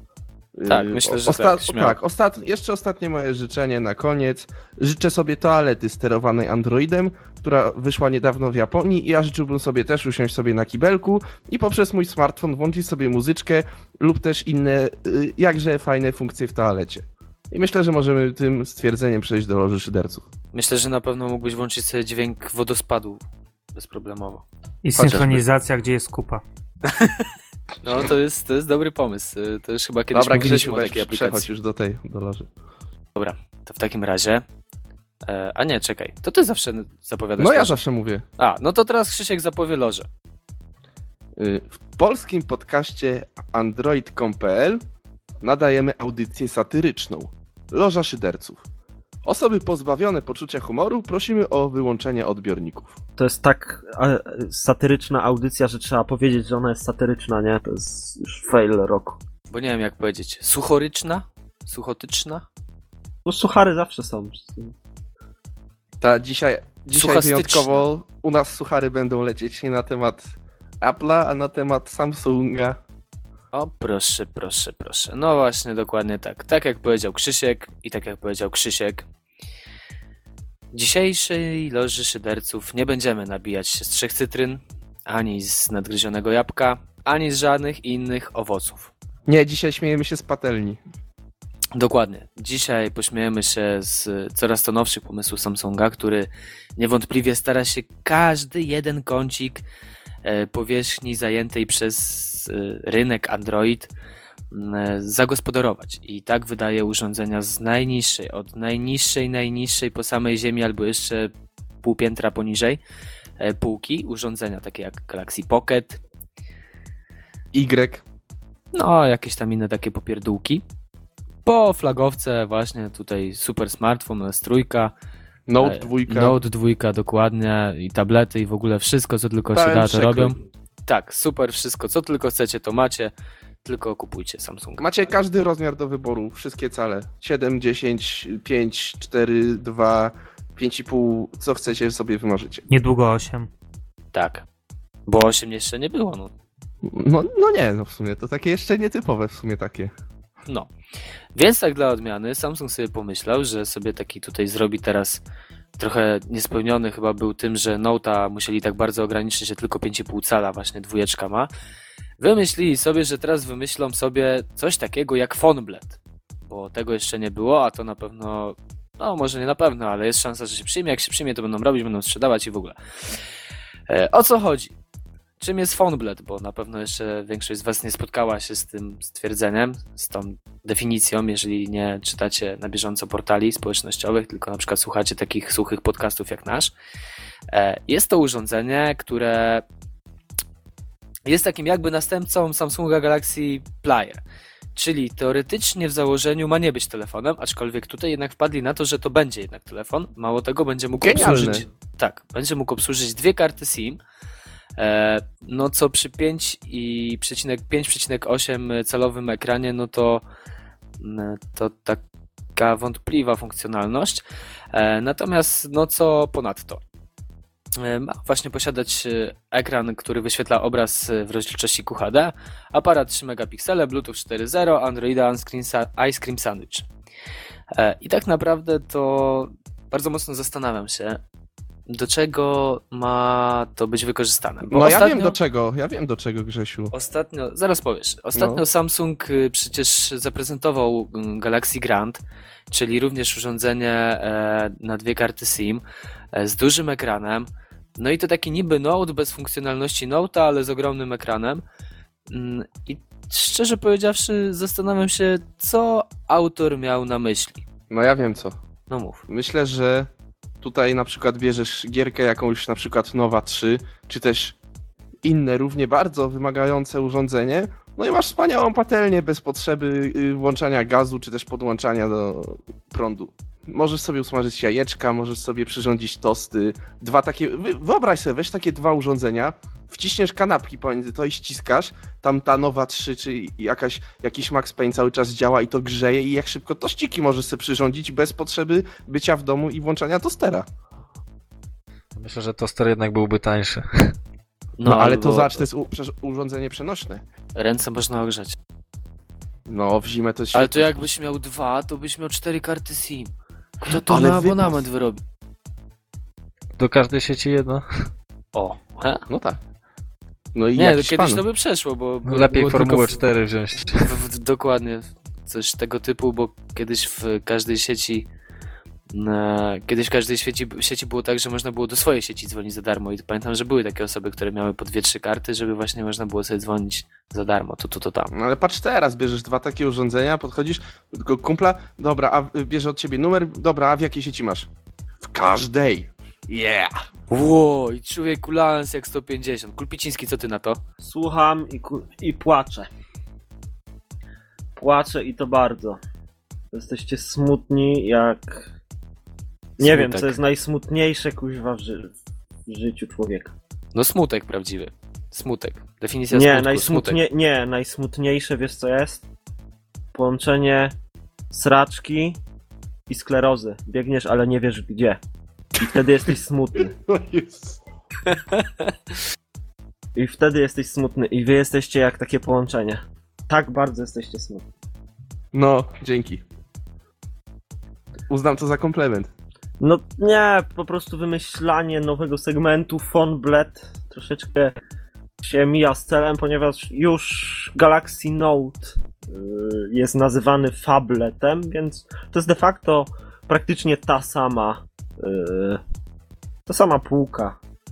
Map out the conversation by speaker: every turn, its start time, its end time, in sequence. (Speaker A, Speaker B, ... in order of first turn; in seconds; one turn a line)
Speaker A: 0.6-20.2
Speaker B: 0.7-2.0
Speaker B: 20.5-23.2
Speaker B: 23.7-24.4
Speaker C: 24.8-26.4
Speaker B: 25.0-25.4
Speaker B: 26.9-27.3
Speaker B: 27.8-31.4
Speaker A: 30.1-32.5
Speaker B: 33.1-34.4
Speaker B: 35.2-37.8
Speaker A: 37.4-38.2
Speaker B: 38.4-40.1
Speaker A: 41.4-44.8
Speaker A: 45.4-48.6
Speaker A: 49.2-53.0
Speaker D: 53.2-59.2
Speaker B: 59.5-62.4
Speaker D: 63.2-64.7
Speaker A: 66.0-70.2
Speaker B: 66.9-67.8
Speaker A: 70.8-72.8
Speaker B: 73.5-79.0
Speaker B: 80.7-88.9
Speaker A: 89.3-90.8
Speaker B: 91.8-99.6
Speaker B: 100.2-103.9
Speaker B: 104.5-111.3
Speaker B: 111.8-112.8
Speaker B: 113.4-116.0
Speaker A: 117.5-118.0
Speaker B: 118.7-120.6
Speaker B: 121.4-124.9
Speaker A: 125.5-126.3
Speaker B: 125.6-133.1
Speaker A: 129.5-130.3
Speaker B: 133.6-134.8
Speaker A: 134.8-142.6
Speaker C: 142.7-143.5
Speaker B: 144.1-144.4
Speaker B: 145.1-146.3
Speaker A: 146.8-149.9
Speaker B: 151.3-155.2
Speaker B: 155.8-161.5
Speaker B: 162.2-172.8
Speaker B: 173.9-174.7
Speaker B: 175.4-186.7
Speaker B: 187.5-189.6
Speaker B: 191.3-194.2
Speaker B: 194.7-204.0
Speaker A: 201.0-201.6
Speaker B: 204.8-210.2
Speaker B: 211.0-212.0
Speaker B: 212.6-214.2
Speaker B: 214.7-216.8
Speaker B: 217.8-226.9
Speaker B: 227.7-231.2
Speaker B: 231.9-235.3
Speaker A: 234.7-236.9
Speaker B: 236.9-242.2
Speaker A: 238.3-238.6
Speaker B: 242.7-245.8
Speaker B: 246.3-247.5
Speaker B: 248.0-251.6
Speaker B: 252.3-257.6
Speaker A: 257.9-258.5
Speaker B: 258.9-259.2
Speaker A: 259.3-260.1
Speaker A: 260.6-264.5
Speaker A: 265.2-290.6
Speaker E: 292.1-294.1
Speaker B: 294.8-295.6
Speaker A: 294.8-297.2
Speaker B: 297.5-298.6
Speaker A: 299.7-300.9
Speaker B: 300.5-303.3
Speaker B: 303.8-305.2
Speaker A: 303.9-304.8
Speaker E: 306.8-307.9
Speaker B: 308.5-309.2
Speaker A: 309.3-309.6
Speaker A: 310.5-311.4
Speaker B: 310.8-313.2
Speaker E: 312.2-314.1
Speaker B: 313.9-318.3
Speaker B: 319.1-328.3
Speaker A: 328.3-334.7
Speaker A: 335.2-336.9
Speaker B: 337.3-340.8
Speaker D: 341.0-342.9
Speaker D: 344.8-346.0
Speaker D: 346.7-348.7
Speaker D: 349.8-352.1
Speaker B: 349.8-350.3
Speaker D: 352.7-353.5
Speaker B: 353.9-357.2
Speaker D: 356.3-359.2
Speaker D: 360.1-360.9
Speaker D: 361.5-362.4
Speaker D: 363.1-365.2
Speaker D: 365.8-366.9
Speaker A: 366.9-367.8
Speaker B: 368.3-368.8
Speaker D: 370.1-374.6
Speaker A: 375.5-376.4
Speaker A: 378.3-379.3
Speaker D: 379.8-384.7
Speaker D: 385.4-395.8
Speaker D: 396.7-397.6